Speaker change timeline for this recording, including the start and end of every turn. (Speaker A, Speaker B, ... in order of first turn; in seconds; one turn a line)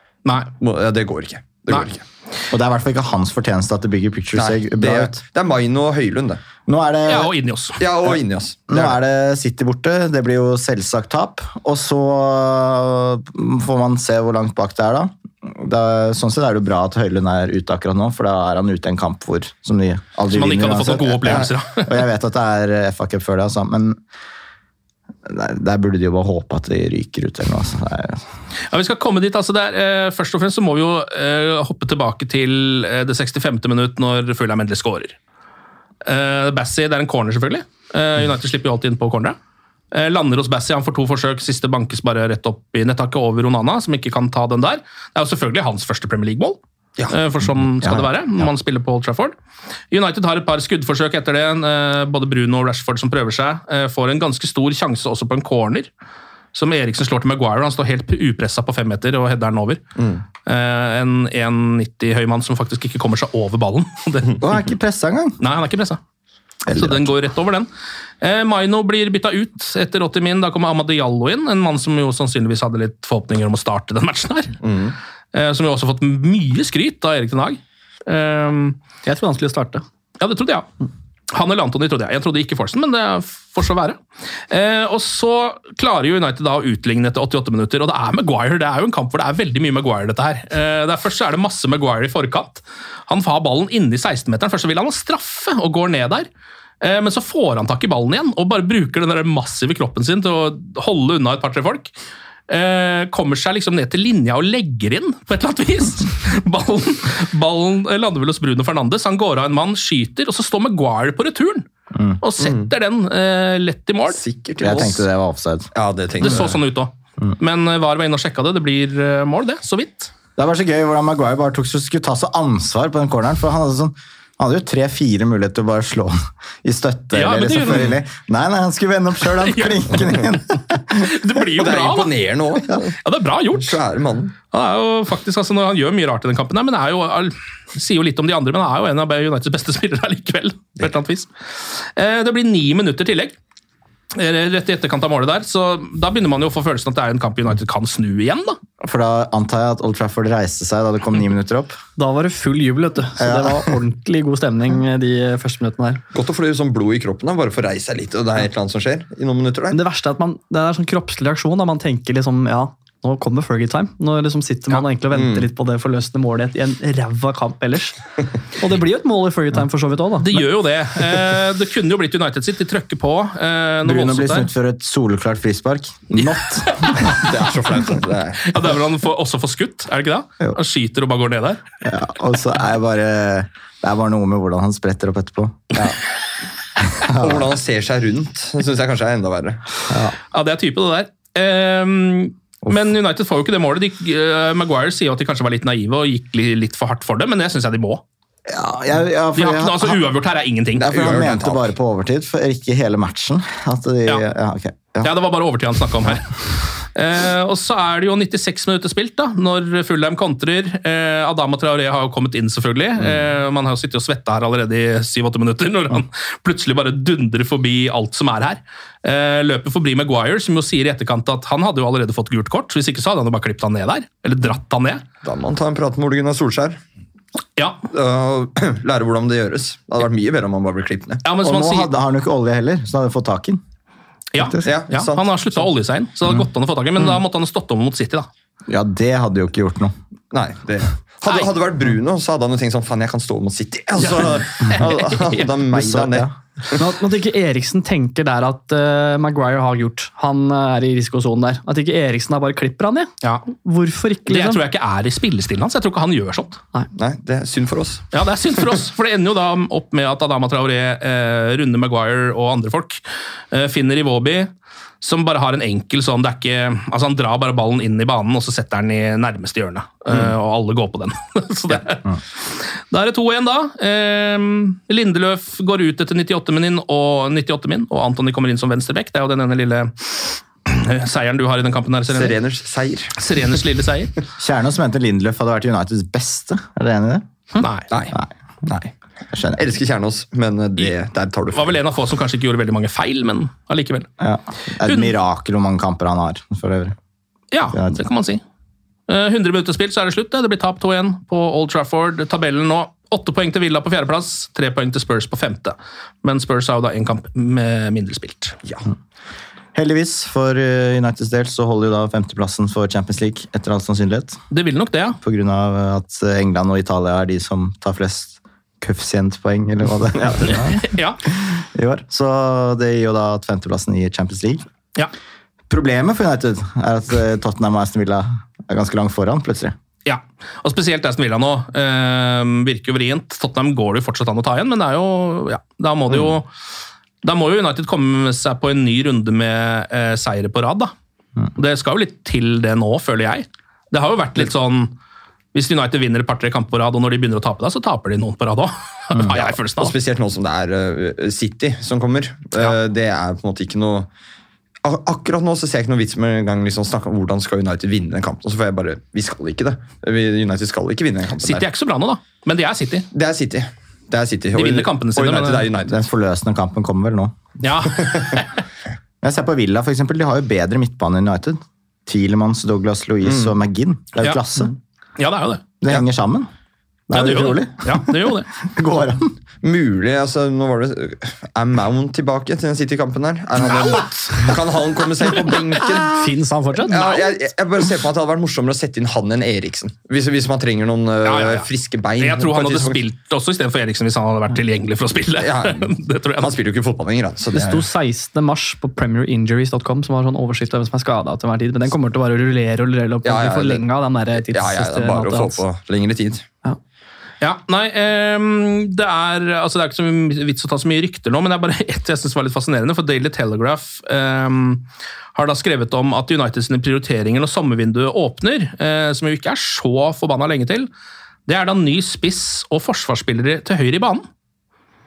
Speaker A: 0.2-0.5
Speaker B: 0.6-2.0
Speaker C: 2.5-5.2
Speaker B: 4.3-6.4
Speaker C: 6.7-7.3
Speaker A: 7.0-7.8
Speaker B: 7.8-8.9
Speaker C: 8.7-24.0
Speaker A: 20.3-22.0
Speaker C: 25.2-28.2
Speaker A: 28.7-35.1
Speaker A: 36.0-39.4
Speaker A: 39.9-46.6
Speaker A: 47.1-49.3
Speaker C: 47.6-48.5
Speaker A: 49.9-55.9
Speaker A: 56.5-59.8
Speaker B: 60.0-60.2
Speaker A: 60.5-64.6
Speaker C: 64.4-65.4
Speaker A: 65.4-66.0
Speaker C: 66.7-67.1
Speaker A: 66.7-67.7
Speaker A: 68.2-74.6
Speaker B: 74.6-74.9
Speaker A: 75.3-78.8
Speaker D: 79.0-79.8
Speaker A: 80.2-80.7
Speaker A: 81.3-84.0
Speaker A: 84.5-96.3
Speaker A: 96.8-101.9
Speaker A: 102.5-111.6
Speaker C: 111.9-112.2
Speaker A: 112.2-114.2
Speaker B: 112.4-112.7
Speaker B: 114.1-115.0
Speaker C: 114.6-115.7
Speaker B: 115.7-116.6
Speaker A: 116.2-120.1
Speaker C: 120.4-131.2
Speaker A: 127.1-128.0
Speaker A: 129.3-130.2
Speaker A: 130.9-132.1
Speaker B: 131.6-132.9
Speaker A: 133.0-133.8
Speaker B: 133.5-134.3
Speaker A: 134.5-143.3
Speaker A: 144.1-148.6
Speaker C: 148.8-151.8
Speaker D: 152.0-156.0
Speaker C: 153.2-153.7
Speaker B: 156.1-159.8
Speaker D: 159.7-168.0
Speaker B: 165.1-165.5
Speaker D: 168.6-170.3
Speaker A: 170.2-174.5
Speaker C: 173.8-177.6
Speaker A: 176.8-177.2
Speaker B: 177.2-178.6
Speaker A: 178.5-181.6
Speaker C: 181.8-185.9
Speaker C: 186.8-187.5
Speaker B: 187.1-189.6
Speaker C: 189.9-190.2
Speaker A: 190.3-198.0
Speaker C: 198.4-200.0
Speaker A: 199.3-201.1
Speaker B: 200.8-201.7
Speaker C: 200.8-205.1
Speaker A: 205.0-225.0
Speaker B: 225.2-226.8
Speaker A: 227.6-227.8
Speaker B: 227.9-231.2
Speaker A: 231.2-231.9
Speaker C: 231.4-233.6
Speaker A: 234.3-238.3
Speaker C: 234.4-234.6
Speaker B: 234.6-235.6
Speaker C: 238.7-239.9
Speaker B: 240.3-246.8
Speaker A: 244.0-245.4
Speaker C: 245.7-246.3
Speaker D: 246.8-254.6
Speaker A: 254.3-256.6
Speaker B: 256.9-258.0
Speaker A: 258.1-263.0
Speaker A: 263.5-264.5
Speaker A: 265.0-282.4
Speaker B: 282.1-283.1
Speaker A: 283.2-284.1
Speaker C: 284.4-287.2
Speaker A: 287.6-287.9
Speaker B: 287.9-288.9
Speaker C: 289.3-289.6
Speaker B: 289.6-291.8
Speaker A: 291.5-294.1
Speaker C: 294.2-296.9
Speaker A: 294.8-295.1
Speaker A: 297.5-298.4
Speaker C: 297.7-298.0
Speaker A: 299.1-308.6
Speaker C: 309.7-314.4
Speaker A: 314.5-315.2
Speaker C: 315.2-324.6
Speaker A: 320.5-321.2
Speaker C: 325.7-329.7
Speaker A: 330.1-336.5
Speaker A: 337.2-340.9
Speaker A: 341.6-344.9
Speaker A: 345.5-349.9
Speaker B: 349.3-354.1
Speaker B: 354.8-361.7
Speaker A: 361.4-363.1
Speaker B: 363.1-366.0
Speaker A: 364.5-365.7
Speaker C: 365.9-367.3
Speaker A: 367.6-368.5
Speaker C: 369.2-374.7
Speaker B: 373.2-373.5
Speaker A: 375.2-375.6
Speaker C: 375.8-376.5
Speaker C: 377.1-379.3
Speaker A: 377.1-378.5
Speaker B: 379.6-386.2
Speaker A: 383.6-384.4
Speaker D: 386.1-387.2
Speaker B: 386.9-393.0
Speaker A: 391.2-396.5
Speaker B: 395.4-397.8
Speaker D: 397.5-405.6
Speaker B: 403.2-403.8
Speaker B: 404.3-406.4
Speaker A: 407.4-414.8
Speaker A: 415.3-420.9
Speaker A: 421.4-424.2